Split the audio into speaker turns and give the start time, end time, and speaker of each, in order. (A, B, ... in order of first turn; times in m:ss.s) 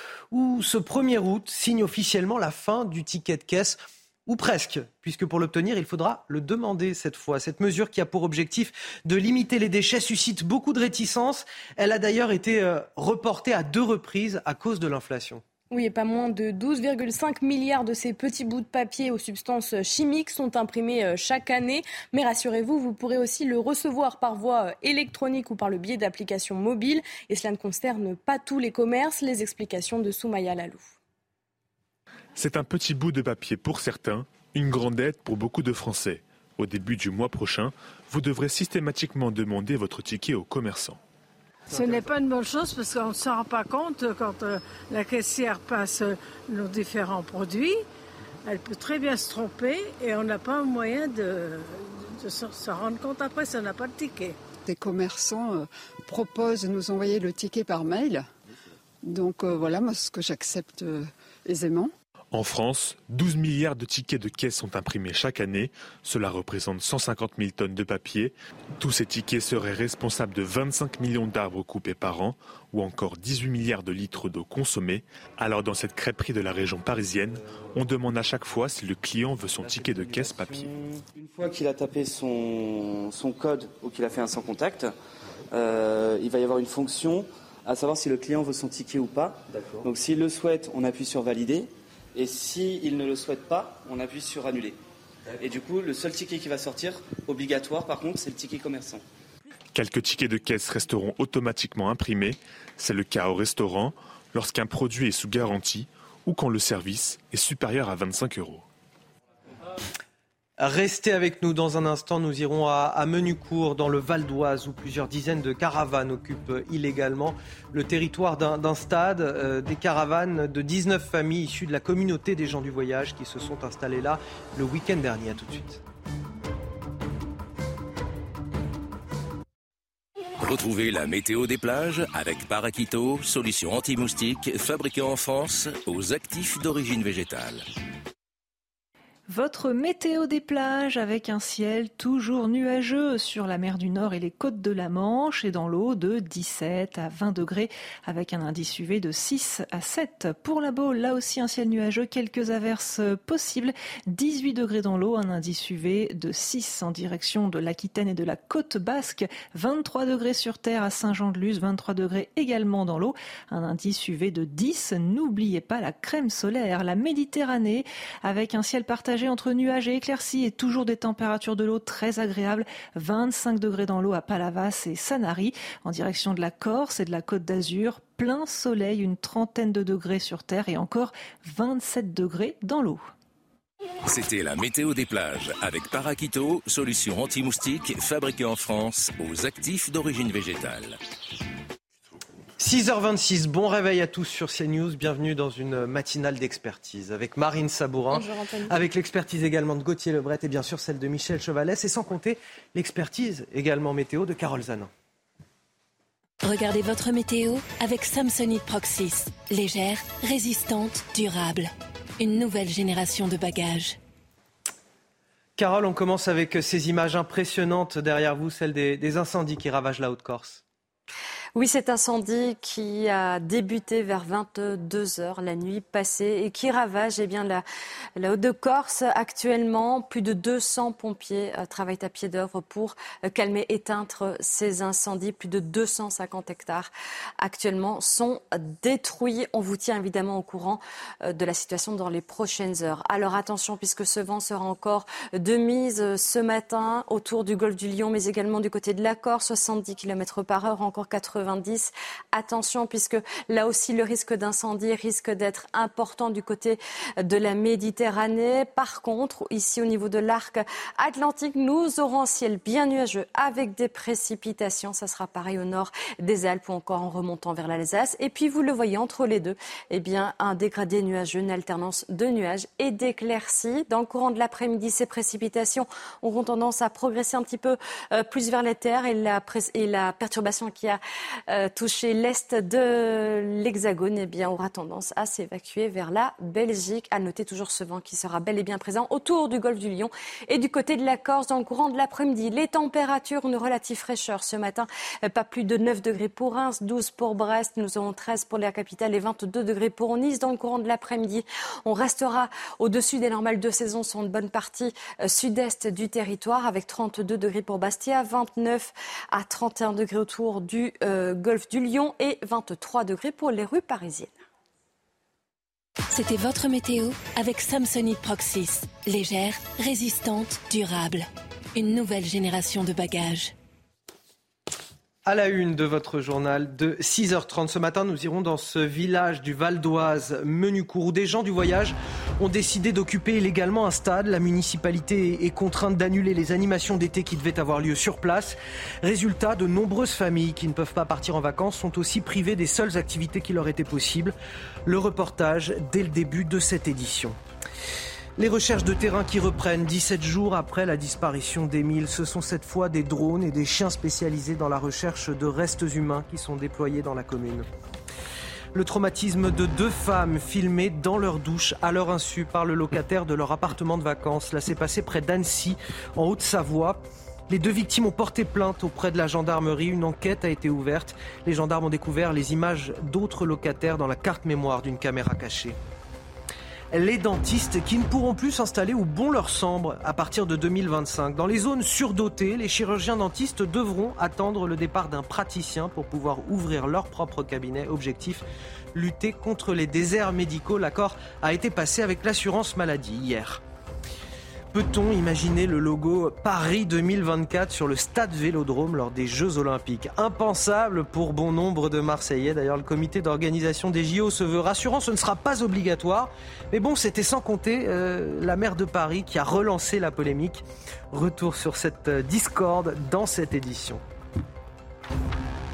0:00.3-0:15.4 A
0:15.7-0:31.0 B
0:32.4-0:41.0 C
0:41.7-0:47.8 D
0:48.4-0:54.4 D
0:54.6-0:58.3 E
0:59.0-1:01.9 E
1:02.3-1:20.7 C
1:19.7-1:20.5 A
1:21.1-1:24.9 F
1:25.5-1:34.8 F
1:35.3-1:39.0 F
1:39.7-1:48.6 C
1:50.6-2:05.8 A
2:10.4-2:17.6 G
2:19.3-3:03.1 H
3:04.1-3:11.0 G
3:12.6-3:24.9 A
3:18.1-3:18.8 B
3:26.4-3:34.0 I
3:35.6-3:40.6 A
3:41.6-3:47.6 J
3:48.2-5:14.4 J
5:16.1-5:23.5 I
5:25.2-5:44.4 A
5:44.9-5:47.4 A
5:48.4-5:57.7 A
5:58.7-6:15.8 A
6:16.9-6:33.6 A
6:34.7-6:54.0 A